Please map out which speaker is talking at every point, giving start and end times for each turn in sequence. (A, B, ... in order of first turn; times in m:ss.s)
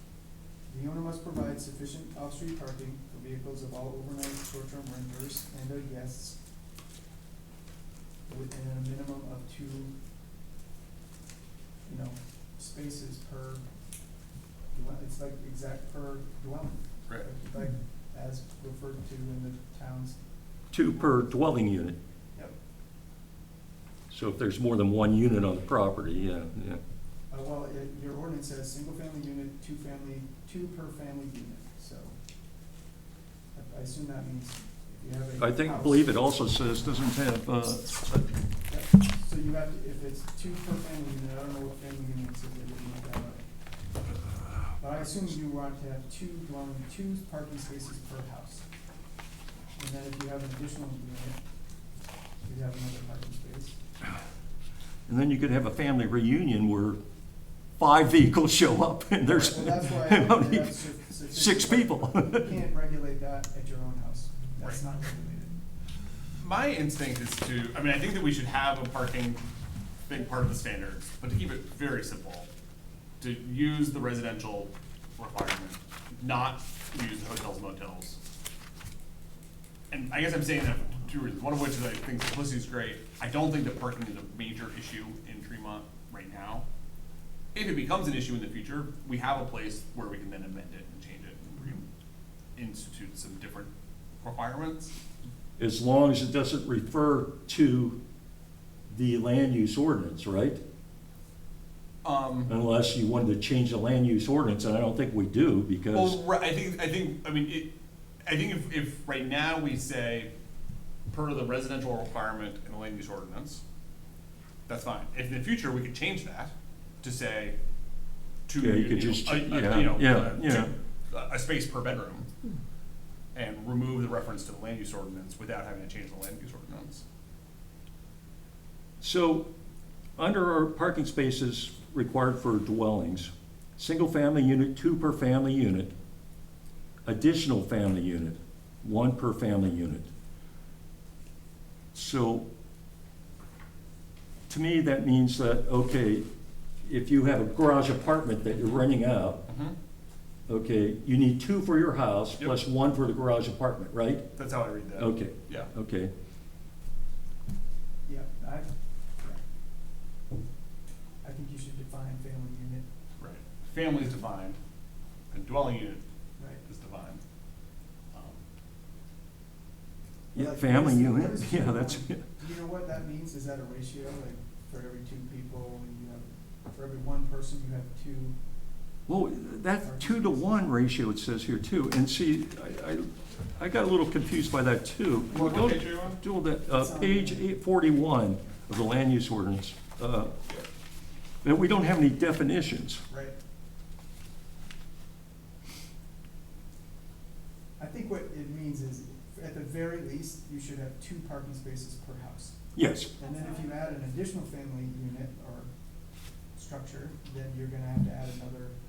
0:00.7-0:06.4 A
0:08.3-0:09.9 A
0:11.8-0:13.6 A
0:14.7-0:20.2 A
0:20.7-0:22.0 B
0:24.1-0:26.8 B
0:27.3-0:32.1 A
0:33.5-0:36.1 A
0:35.4-0:38.3 B
0:38.7-0:43.4 A
0:44.8-0:48.6 A
0:49.8-0:51.4 A
0:52.4-0:53.8 A
0:55.1-0:57.0 B
0:57.8-1:00.8 B
0:59.2-1:05.6 A
1:01.3-1:02.5 B
1:06.4-1:09.4 C
1:10.1-1:12.5 C
1:13.2-1:18.2 C
1:19.9-1:26.6 C
1:27.5-1:31.8 C
1:32.6-1:34.9 C
1:35.6-1:38.0 B
1:38.9-1:40.6 B
1:42.0-1:42.5 C
1:42.5-1:46.2 B
1:45.9-1:47.7 C
1:48.2-1:50.3 C
1:51.1-1:53.6 C
1:54.7-1:57.6 C
1:58.5-2:02.3 C
1:58.6-2:00.7 B
2:03.3-2:07.0 C
2:09.0-2:09.5 B
2:10.2-2:15.9 B
2:17.0-2:20.1 B
2:21.9-2:22.4 B
2:24.5-2:26.2 B
2:26.8-2:29.4 B
2:29.4-2:29.7 C
2:30.5-2:34.3 B
2:34.3-2:35.7 C
2:35.0-2:36.1 B
2:38.0-2:39.4 A
2:41.2-2:42.8 A
2:43.2-2:44.6 C
2:45.3-2:46.0 C
2:46.6-2:47.2 C
2:48.1-2:48.4 C
2:50.3-2:52.2 B
2:50.3-2:58.4 A
2:59.1-3:10.3 B
2:59.8-3:00.7 A
3:05.3-3:06.2 C
3:06.7-3:07.5 A
3:11.4-3:13.0 B
3:13.1-3:13.3 A
3:17.8-3:22.6 A
3:22.8-3:23.1 B
3:23.2-3:25.7 A
3:26.6-3:28.8 A